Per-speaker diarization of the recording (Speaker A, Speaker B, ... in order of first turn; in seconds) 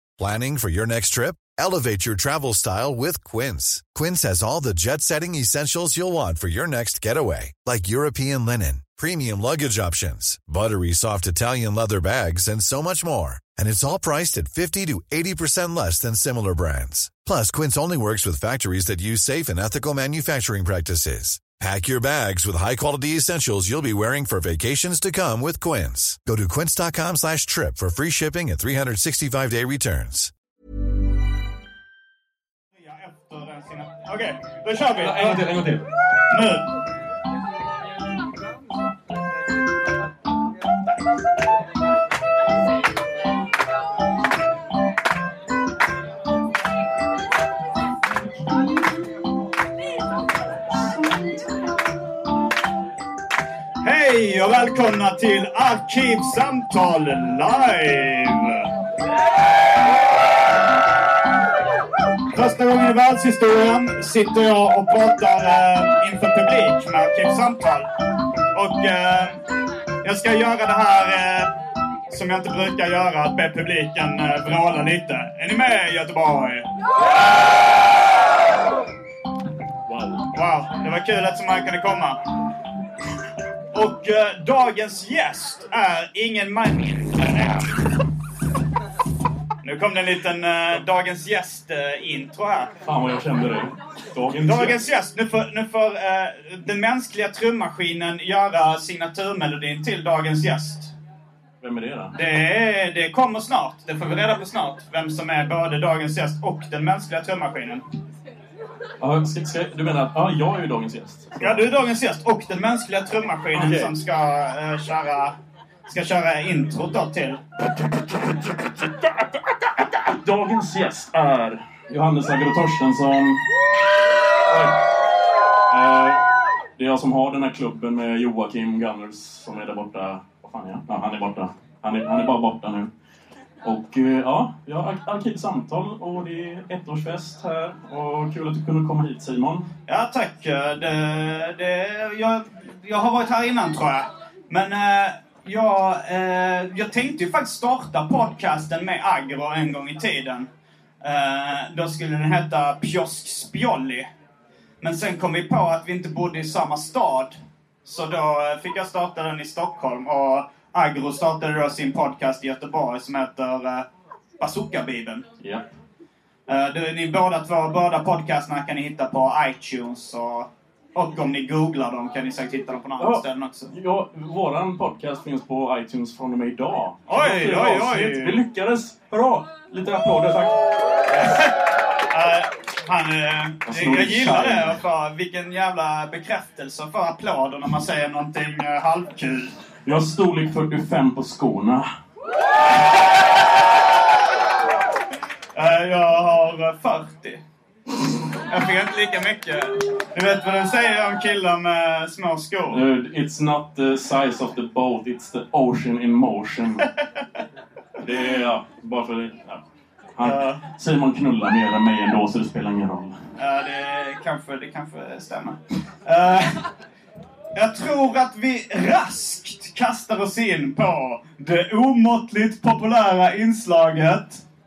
Speaker A: 0.2-30.3
Speaker B: 32.8-35.6, 36.3-36.7, 53.8-58.7, 62.3-67.9, 68.5-69.4, 70.0-71.5, 72.1-76.7, 80.3-82.2, 83.7-87.8, 89.6-92.7, 94.5-100.9, 102.2-107.8, 111.4-115.3, 115.9-117.4, 139.9-150.5, 151.0-154.1, 154.8-163.9, 164.4-165.2, 166.5-173.7, 177.1-178.4, 182.1-189.6, 195.6-197.4, 198.5-202.8, 210.2-210.6, 213.4-216.7, 217.6-224.4
Speaker C: 35.0-35.8, 79.9-80.2, 92.8-94.8, 101.6-102.2, 109.0-111.8, 113.5-113.9, 118.1-123.4, 124.5-124.8, 125.7-126.3, 126.8-132.9, 133.6-139.7, 165.4-165.7, 173.0-181.5, 183.7-184.8, 189.8-191.9, 202.7-206.9, 208.0-209.6, 210.2-213.2